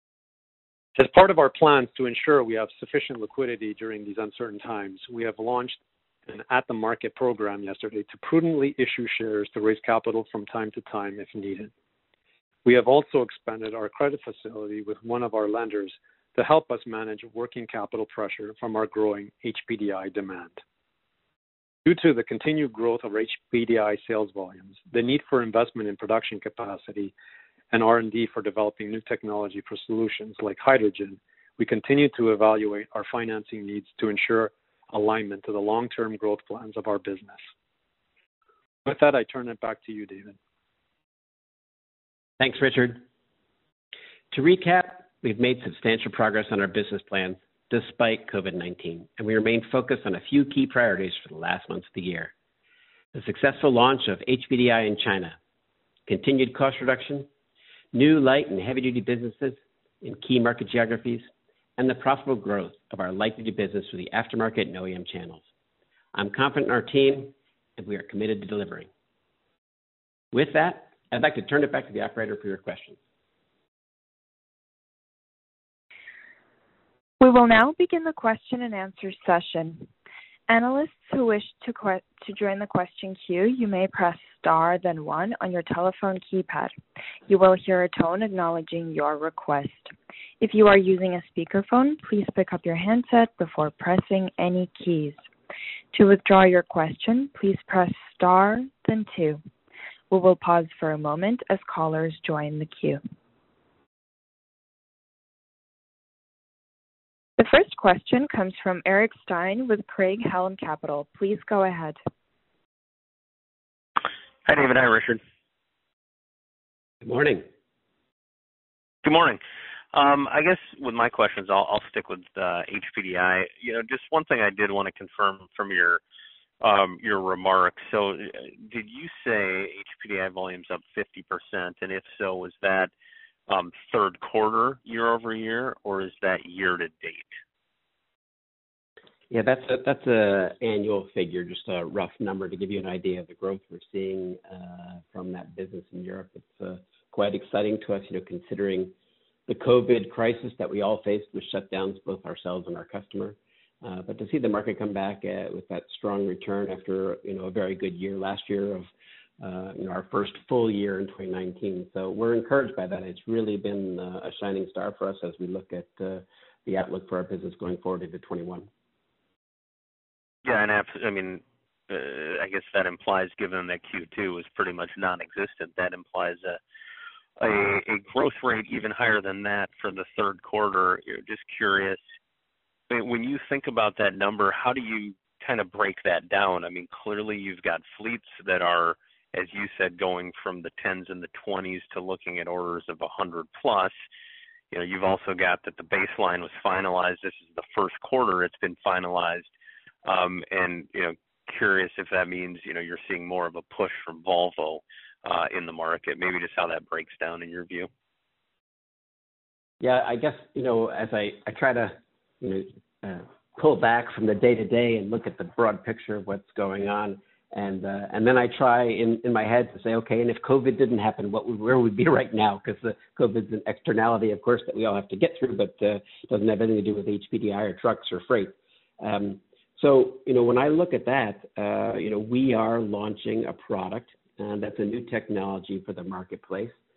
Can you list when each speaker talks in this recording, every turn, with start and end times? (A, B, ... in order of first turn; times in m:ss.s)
0:01.0-0:11.7 A
0:12.6-0:20.6 A
0:21.8-0:27.1 A
0:27.7-0:37.4 A
0:38.8-0:40.4 A
0:42.4-0:43.0 B
0:44.3-0:52.3 B
0:53.1-0:55.4 B
0:56.1-0:57.3 B
0:57.9-1:01.3 B
1:01.8-1:05.4 B
1:06.1-1:08.9 B
1:10.3-1:13.0 B
1:17.2-1:19.9 C
1:20.5-1:26.7 C
1:27.3-1:35.2 C
1:35.9-1:39.4 C
1:40.1-1:43.0 C
1:47.4-1:52.0 C
1:54.4-1:55.2 D
1:57.0-1:57.5 B
1:59.0-1:59.4 D
1:59.9-2:06.0 D
2:06.6-2:12.9 D
2:13.5-2:17.3 D
2:19.3-2:28.9 B
2:29.5-2:38.9 B
2:39.4-2:48.7 B
2:50.4-2:56.6 D
2:57.4-3:02.0 D
3:02.9-3:14.0 D
3:14.7-3:19.5 D
3:20.0-3:27.9 D
3:29.8-3:56.7 B